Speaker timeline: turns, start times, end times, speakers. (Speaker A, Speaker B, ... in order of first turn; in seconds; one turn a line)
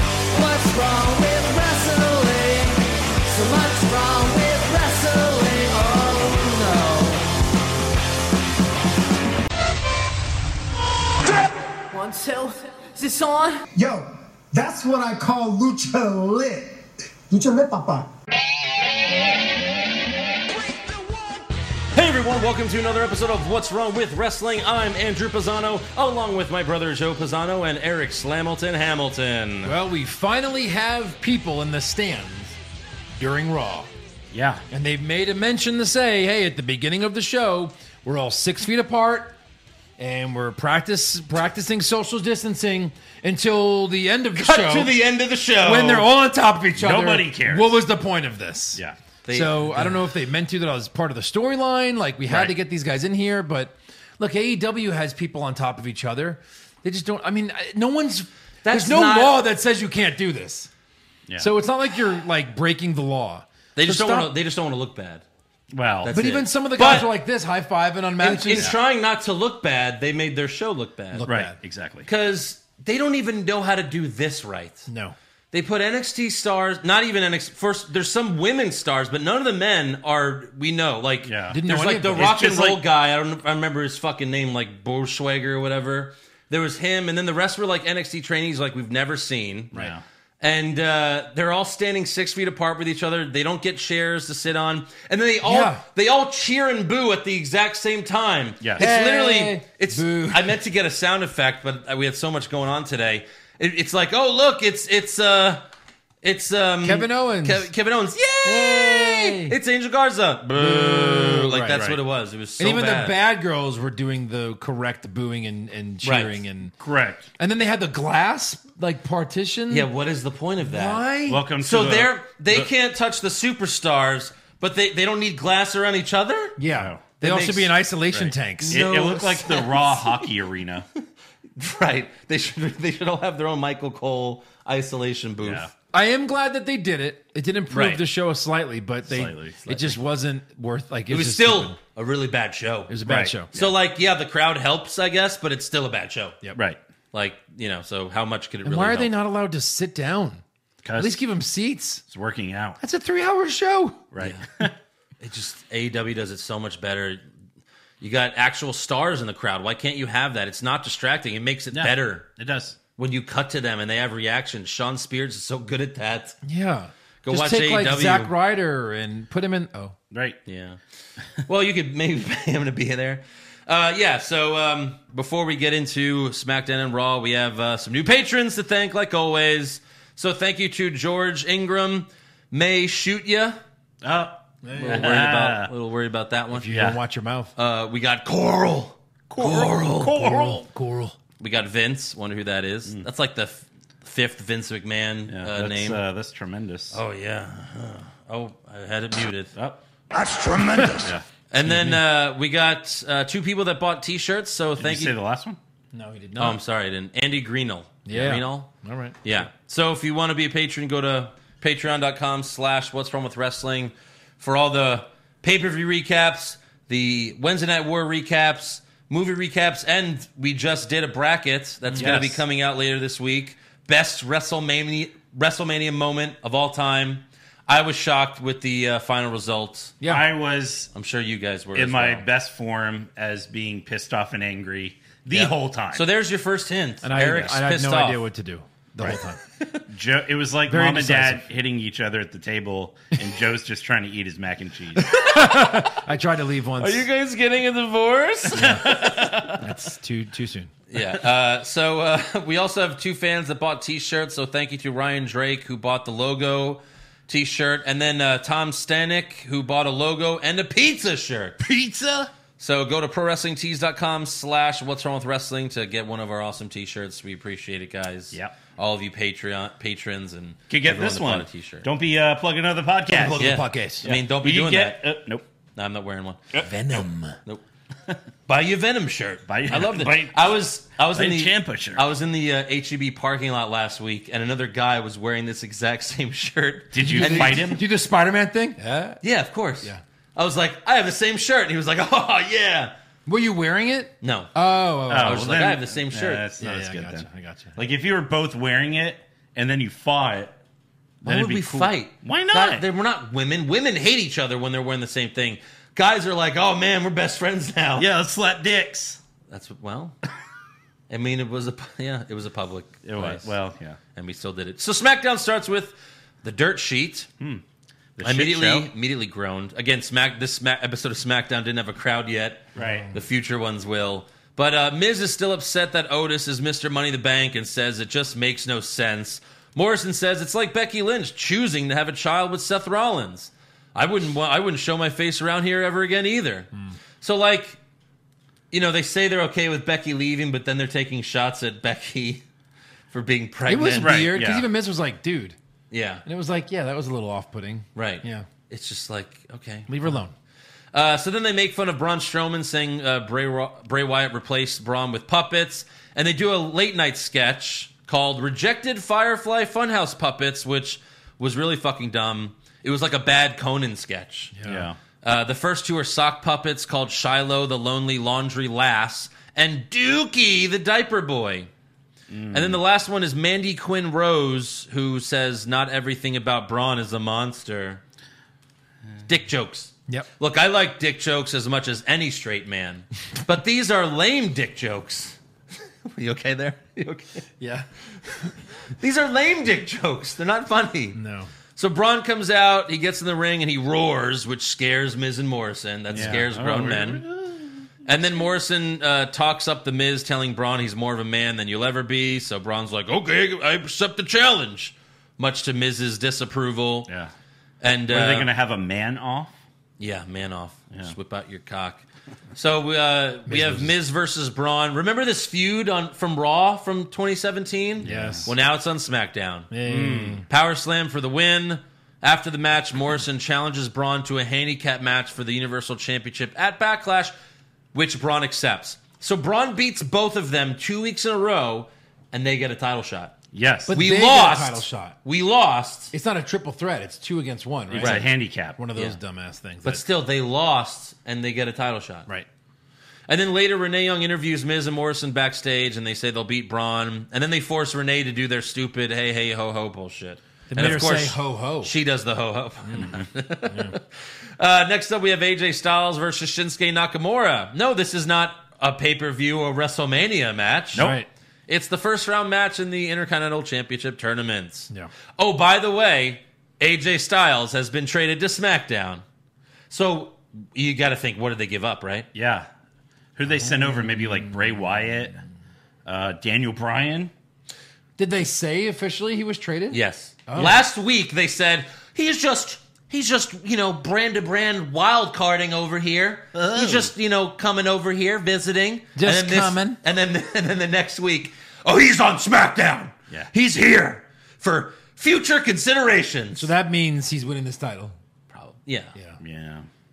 Speaker A: 0.3-7.3
Speaker A: 11.9-13.6
Speaker B: 13.8-18.1
Speaker C: 21.9-29.5
Speaker D: 29.6-32.6
Speaker D: 33.2-33.9
Speaker E: 34.3-34.6
Speaker D: 34.7-39.4
Speaker D: 40.0-45.0
Speaker C: 44.4-46.1
Speaker D: 45.6-60.7
Speaker E: 46.8-47.8
Speaker C: 49.2-50.1
Speaker C: 58.6-59.4
Speaker D: 61.4-64.3
Speaker C: 63.8-65.2
Speaker E: 65.7-66.2
Speaker C: 66.0-67.1
Speaker D: 66.1-68.7
Speaker C: 68.2-71.3
Speaker E: 68.5-68.8
Speaker D: 71.1-71.5
Speaker E: 71.2-72.1
Speaker C: 72.0-74.9
Speaker D: 74.9-75.1
Speaker C: 75.5-89.7
Speaker E: 81.2-81.6
Speaker D: 81.5-82.3
Speaker E: 82.1-82.8
Speaker E: 89.7-90.0
Speaker C: 90.4-105.7
Speaker D: 95.4-95.8
Speaker E: 98.6-98.8
Speaker D: 98.8-100.6
Speaker C: 106.2-113.2
Speaker D: 106.8-107.7
Speaker D: 108.4-109.6
Speaker D: 110.5-111.9
Speaker D: 112.6-116.7
Speaker C: 116.0-116.4
Speaker E: 116.8-117.3
Speaker D: 117.4-119.9
Speaker C: 119.7-121.0
Speaker D: 120.6-121.4
Speaker E: 121.3-122.7
Speaker C: 121.6-126.6
Speaker D: 126.6-128.8
Speaker E: 126.7-127.0
Speaker C: 127.2-127.7
Speaker E: 128.1-130.9
Speaker C: 128.6-130.2
Speaker C: 131.6-135.7
Speaker E: 135.4-135.7
Speaker D: 135.9-141.8
Speaker C: 137.7-138.0
Speaker E: 139.1-139.9
Speaker C: 141.1-143.0
Speaker D: 142.9-143.5
Speaker E: 143.1-143.8
Speaker C: 143.5-146.4
Speaker C: 147.1-149.1
Speaker D: 148.6-150.4
Speaker E: 150.8-151.2
Speaker D: 151.0-152.0
Speaker E: 152.1-152.8
Speaker D: 152.8-154.0
Speaker E: 154.1-154.7
Speaker C: 154.2-154.7
Speaker C: 155.2-157.2
Speaker C: 158.0-162.2
Speaker E: 161.7-162.8
Speaker C: 163.0-166.4
Speaker D: 166.4-169.9
Speaker C: 167.2-168.3
Speaker E: 170.1-170.4
Speaker C: 170.4-170.8
Speaker C: 171.4-183.6
Speaker E: 184.0-185.7
Speaker D: 184.6-185.1
Speaker C: 184.8-186.7
Speaker D: 186.5-187.5
Speaker E: 186.7-187.0
Speaker C: 187.6-190.4
Speaker E: 189.3-190.6
Speaker D: 189.3-191.2
Speaker C: 191.4-196.0
Speaker E: 195.3-197.0
Speaker C: 196.9-199.5
Speaker E: 199.5-201.2
Speaker D: 200.6-201.1
Speaker C: 201.5-205.1
Speaker D: 201.7-201.9
Speaker E: 204.8-205.6
Speaker D: 205.9-206.6
Speaker C: 206.4-208.7
Speaker D: 208.1-209.2
Speaker C: 209.2-229.9
Speaker D: 221.9-222.2
Speaker E: 222.0-222.4
Speaker D: 230.0-230.3
Speaker E: 230.0-230.9
Speaker C: 230.9-232.2
Speaker E: 231.7-236.0
Speaker C: 235.3-238.2
Speaker D: 237.0-239.4
Speaker E: 239.9-245.1
Speaker D: 240.7-241.4
Speaker D: 244.9-247.1
Speaker C: 245.3-245.8
Speaker C: 246.8-249.6
Speaker D: 248.5-249.0
Speaker E: 248.6-249.1
Speaker D: 249.5-250.7
Speaker C: 250.9-261.6
Speaker E: 261.6-262.3
Speaker C: 262.6-271.9
Speaker E: 270.7-273.4
Speaker D: 273.1-274.1
Speaker C: 273.4-275.0
Speaker E: 274.0-275.4
Speaker C: 275.8-276.4
Speaker D: 276.6-277.4
Speaker C: 278.5-287.8
Speaker E: 279.5-280.6
Speaker E: 281.1-282.0
Speaker E: 286.9-287.8
Speaker D: 287.0-289.2
Speaker C: 289.2-292.9
Speaker D: 293.2-295.5
Speaker C: 294.2-294.5
Speaker E: 295.1-300.5
Speaker C: 295.1-296.4
Speaker D: 296.6-297.8
Speaker E: 301.2-302.8
Speaker C: 301.2-308.1
Speaker E: 308.0-309.2
Speaker C: 309.5-310.1
Speaker C: 311.1-313.5
Speaker E: 313.0-314.0
Speaker C: 314.1-317.3
Speaker E: 318.2-318.9
Speaker C: 318.2-336.7
Speaker E: 322.8-323.1
Speaker D: 322.8-323.1
Speaker C: 337.2-337.8
Speaker C: 338.7-342.4
Speaker C: 343.1-344.2
Speaker D: 343.7-345.6
Speaker E: 344.0-344.7
Speaker C: 345.9-346.2
Speaker D: 346.2-348.5
Speaker C: 347.9-349.9
Speaker D: 349.9-350.3
Speaker C: 350.9-364.5
Speaker D: 364.5-364.9
Speaker E: 364.6-365.0
Speaker C: 365.2-371.7
Speaker E: 372.3-372.8
Speaker C: 372.5-378.0
Speaker C: 379.3-385.4
Speaker C: 386.0-387.4
Speaker D: 387.6-388.5
Speaker C: 389.0-391.2
Speaker D: 391.1-391.5
Speaker C: 391.8-397.2
Speaker E: 396.1-397.9
Speaker C: 398.0-407.1
Speaker C: 407.8-408.5
Speaker E: 408.1-409.5
Speaker C: 410.0-412.0
Speaker C: 412.6-419.7
Speaker D: 413.5-413.9
Speaker E: 418.0-418.5
Speaker D: 418.0-418.5
Speaker D: 419.7-420.4
Speaker E: 419.8-420.4
Speaker C: 420.5-427.3
Speaker C: 427.9-433.4
Speaker E: 433.5-434.0
Speaker D: 433.9-435.2
Speaker C: 433.9-436.1
Speaker D: 436.1-440.1
Speaker E: 437.9-438.8
Speaker C: 438.0-438.3
Speaker C: 439.8-442.3
Speaker C: 443.3-454.1
Speaker D: 450.7-451.9
Speaker D: 452.8-453.1
Speaker D: 453.7-453.9
Speaker C: 454.6-461.1
Speaker E: 460.9-461.2
Speaker D: 461.0-461.3
Speaker C: 461.7-469.2
Speaker C: 469.9-472.3
Speaker E: 472.3-472.7
Speaker E: 473.4-475.4
Speaker D: 473.7-474.0
Speaker E: 476.0-477.3
Speaker D: 478.2-480.8
Speaker C: 479.9-496.7
Speaker E: 486.5-487.1
Speaker D: 489.1-490.0
Speaker D: 496.6-498.1
Speaker C: 498.5-499.1
Speaker E: 499.4-499.9